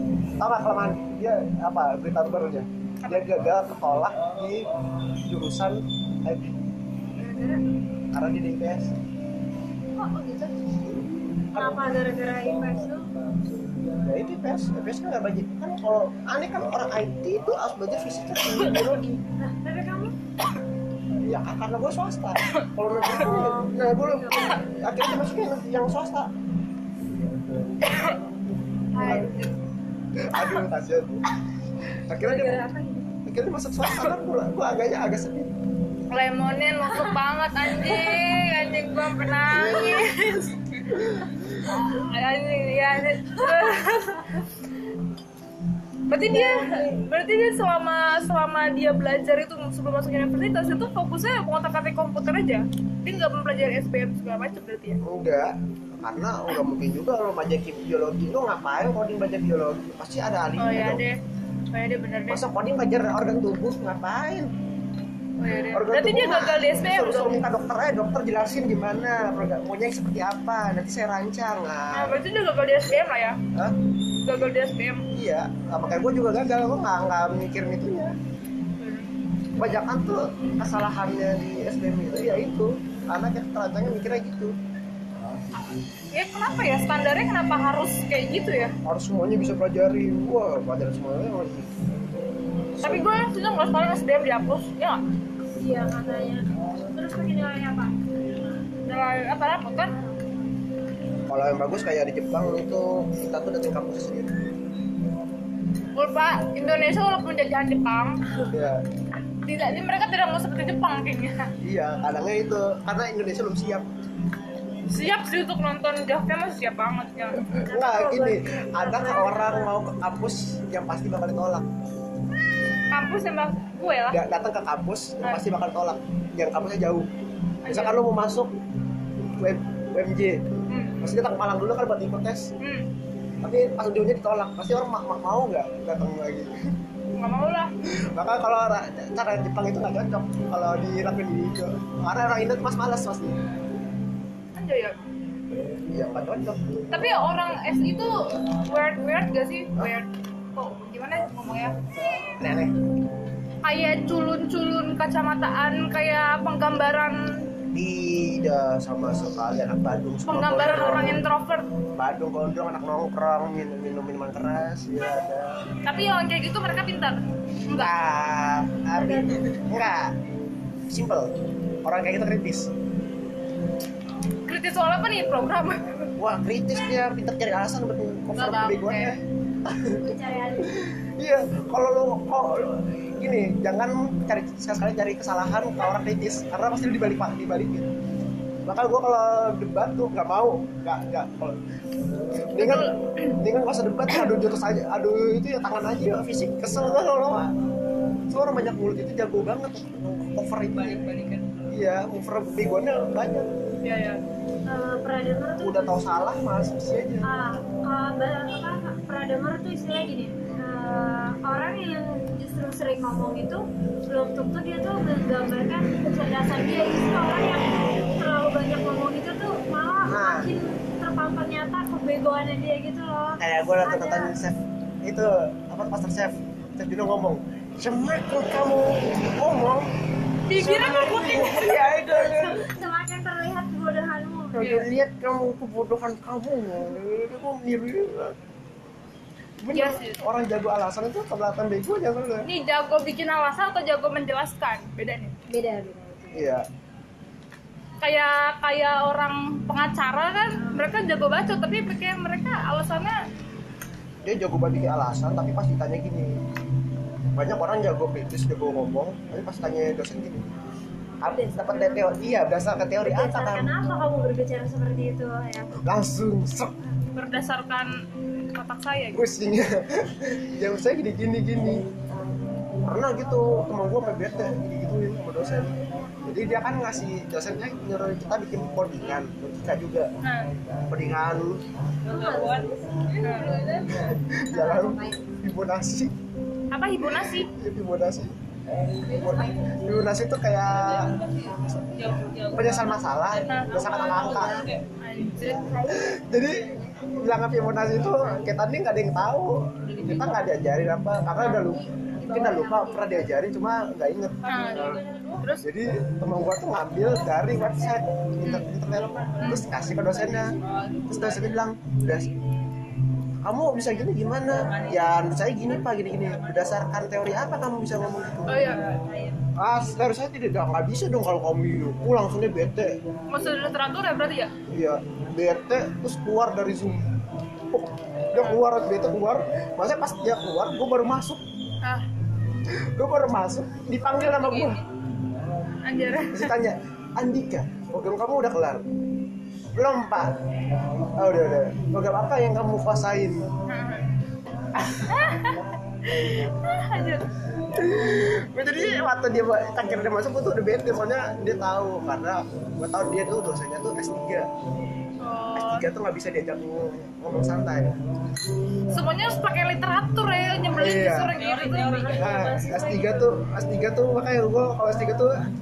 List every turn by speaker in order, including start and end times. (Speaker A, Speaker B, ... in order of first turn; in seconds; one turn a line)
Speaker A: 0.4-6.5
Speaker B: 3.0-3.3
Speaker C: 7.2-7.6
Speaker A: 8.1-8.9
Speaker C: 10.0-10.5
Speaker C: 11.5-13.1
Speaker A: 11.5-11.8
Speaker A: 14.0-19.2
Speaker C: 19.4-20.1
Speaker A: 21.2-26.3
Speaker C: 23.1-24.6
Speaker B: 27.8-28.2
Speaker B: 29.0-29.5
Speaker A: 29.0-29.3
Speaker C: 29.0-29.4
Speaker A: 30.1-31.2
Speaker A: 32.1-32.7
Speaker C: 32.2-33.1
Speaker A: 33.3-35.5
Speaker B: 36.1-40.9
Speaker A: 39.5-40.1
Speaker B: 41.6-44.3
Speaker B: 46.1-55.0
Speaker C: 46.3-47.0
Speaker A: 55.0-61.0
Speaker B: 60.6-61.2
Speaker B: 61.7-62.4
Speaker A: 62.3-64.5
Speaker B: 65.4-67.4
Speaker A: 65.7-72.2
Speaker B: 71.9-73.4
Speaker B: 74.2-75.1
Speaker A: 75.1-78.2
Speaker B: 78.8-79.1
Speaker A: 79.6-84.5
Speaker B: 86.1-88.8
Speaker A: 88.8-91.7
Speaker A: 92.8-93.1
Speaker B: 92.8-95.0
Speaker C: 95.5-98.0
Speaker B: 98.8-100.0
Speaker A: 101.3-104.5
Speaker B: 106.0-108.4
Speaker A: 108.5-108.8
Speaker B: 109.4-111.5
Speaker A: 111.6-113.9
Speaker B: 114.9-117.5
Speaker C: 117.4-119.7
Speaker A: 117.6-121.7
Speaker B: 122.9-124.2
Speaker A: 124.1-127.1
Speaker B: 127.6-128.0
Speaker A: 127.7-128.6
Speaker A: 129.3-130.5
Speaker B: 130.7-131.0
Speaker A: 131.0-132.5
Speaker B: 132.6-132.9
Speaker A: 133.4-136.6
Speaker B: 137.2-137.7
Speaker A: 138.1-143.4
Speaker B: 144.6-145.0
Speaker A: 145.9-146.9
Speaker B: 146.9-151.8
Speaker A: 152.4-152.8
Speaker B: 153.6-157.5
Speaker A: 157.7-161.2
Speaker B: 160.3-161.7
Speaker A: 161.9-165.6
Speaker B: 165.9-167.9
Speaker A: 167.7-170.2
Speaker C: 168.9-169.5
Speaker A: 170.9-172.7
Speaker B: 174.5-176.1
Speaker A: 176.2-187.9
Speaker B: 178.4-179.2
Speaker C: 180.0-180.7
Speaker A: 188.7-191.6
Speaker A: 192.3-197.6
Speaker B: 192.5-193.4
Speaker A: 198.3-201.1
Speaker B: 200.8-201.7
Speaker A: 201.7-203.5
Speaker B: 203.8-204.2
Speaker C: 204.7-206.0
Speaker A: 205.6-207.4
Speaker C: 207.2-224.3
Speaker A: 220.1-220.5
Speaker A: 223.4-229.9
Speaker B: 230.5-231.8
Speaker A: 230.5-232.7
Speaker C: 231.3-234.8
Speaker A: 234.5-238.4
Speaker A: 239.6-242.5
Speaker B: 239.7-240.2
Speaker B: 242.4-245.3
Speaker C: 245.5-246.4
Speaker A: 246.3-246.7
Speaker B: 248.0-253.2
Speaker A: 254.2-256.4
Speaker A: 257.4-260.5
Speaker C: 261.2-262.1
Speaker A: 261.2-263.8
Speaker C: 263.0-265.7
Speaker A: 265.8-266.8
Speaker B: 267.1-267.9
Speaker B: 268.5-269.3
Speaker A: 269.1-271.9
Speaker A: 272.9-280.1
Speaker C: 275.6-276.4
Speaker B: 280.2-280.5
Speaker A: 280.9-281.6
Speaker C: 282.1-285.3
Speaker B: 283.2-283.6
Speaker A: 283.8-286.1
Speaker B: 286.7-287.5
Speaker A: 287.0-288.4
Speaker C: 289.0-289.8
Speaker A: 289.1-294.7
Speaker B: 293.3-295.7
Speaker C: 293.8-294.7
Speaker C: 295.4-297.0
Speaker A: 295.8-305.0
Speaker C: 301.4-303.4
Speaker B: 304.5-305.6
Speaker A: 305.6-312.3
Speaker B: 309.4-309.6
Speaker C: 310.9-311.2
Speaker A: 313.4-318.8
Speaker B: 318.4-318.9
Speaker C: 319.0-319.4
Speaker A: 319.5-323.0
Speaker B: 323.3-324.5
Speaker A: 324.7-327.1
Speaker A: 327.7-331.4
Speaker A: 332.7-334.8
Speaker B: 334.2-334.8
Speaker B: 335.9-336.6
Speaker A: 336.1-338.9
Speaker A: 339.8-340.4
Speaker A: 341.1-343.5
Speaker B: 343.7-344.1
Speaker A: 344.8-345.3
Speaker B: 345.1-347.3
Speaker A: 346.2-346.5
Speaker A: 347.7-354.5
Speaker B: 355.2-355.9
Speaker A: 355.6-357.9
Speaker B: 358.9-362.2
Speaker A: 360.8-361.4
Speaker C: 361.4-363.4
Speaker A: 362.1-365.4